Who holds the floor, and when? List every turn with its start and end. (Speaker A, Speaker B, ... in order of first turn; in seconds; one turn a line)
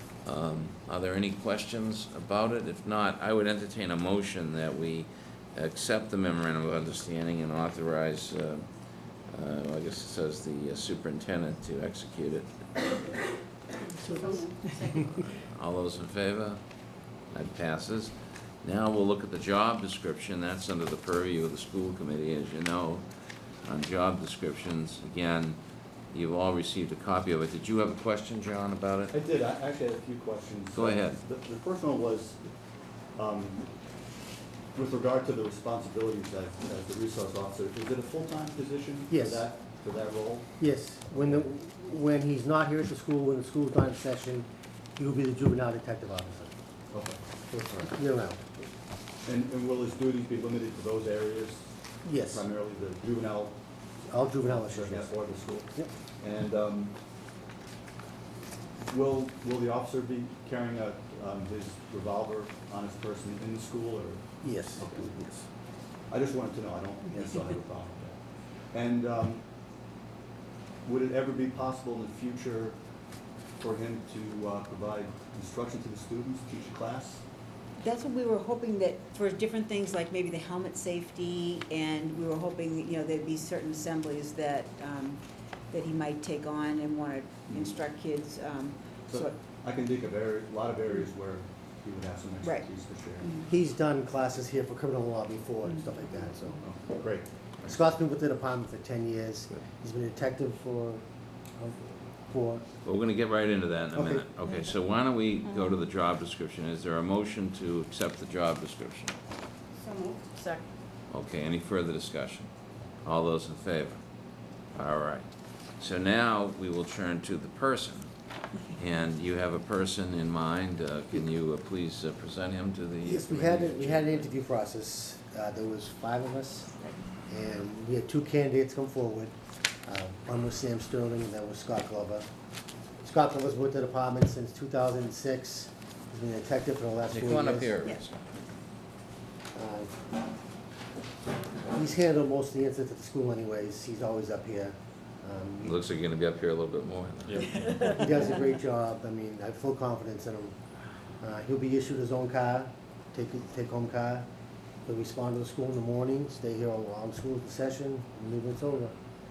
Speaker A: 0.2-8.6
Speaker A: 9.3-13.0
Speaker B: 13.9-14.8
Speaker A: 15.0-16.6
Speaker A: 17.3-23.0
Speaker A: 23.6-25.6
Speaker A: 26.1-29.2
Speaker C: 29.1-32.4
Speaker A: 30.7-31.2
Speaker C: 33.1-33.6
Speaker C: 34.7-40.6
Speaker D: 39.1-39.5
Speaker D: 40.6-46.5
Speaker C: 41.2-41.4
Speaker C: 46.9-47.9
Speaker D: 47.6-48.5
Speaker C: 49.2-53.6
Speaker D: 52.0-52.5
Speaker D: 54.1-55.9
Speaker C: 54.4-56.9
Speaker C: 58.9-65.2
Speaker D: 64.4-65.5
Speaker C: 66.1-68.2
Speaker C: 68.7-69.4
Speaker C: 70.8-72.8
Speaker C: 73.6-77.2
Speaker B: 77.8-89.4
Speaker C: 87.5-87.8
Speaker C: 89.1-93.3
Speaker B: 92.4-92.7
Speaker D: 93.4-96.6
Speaker C: 96.6-97.3
Speaker D: 97.6-101.0
Speaker D: 101.6-102.6
Speaker A: 102.8-109.2
Speaker D: 103.9-104.3
Speaker B: 109.8-110.6
Speaker A: 111.1-112.5
Speaker A: 113.0-114.0
Speaker A: 114.7-115.3
Speaker A: 115.8-118.1
Speaker A: 118.7-124.3
Speaker D: 123.0-126.7
Speaker D: 127.3-129.3
Speaker D: 129.8-132.3
Speaker D: 133.0-137.8
Speaker A: 137.1-138.2
Speaker D: 139.5-139.9
Speaker D: 141.7-145.7
Speaker A: 145.6-147.8
Speaker D: 147.8-150.5
Speaker D: 151.2-154.3
Speaker D: 154.8-158.9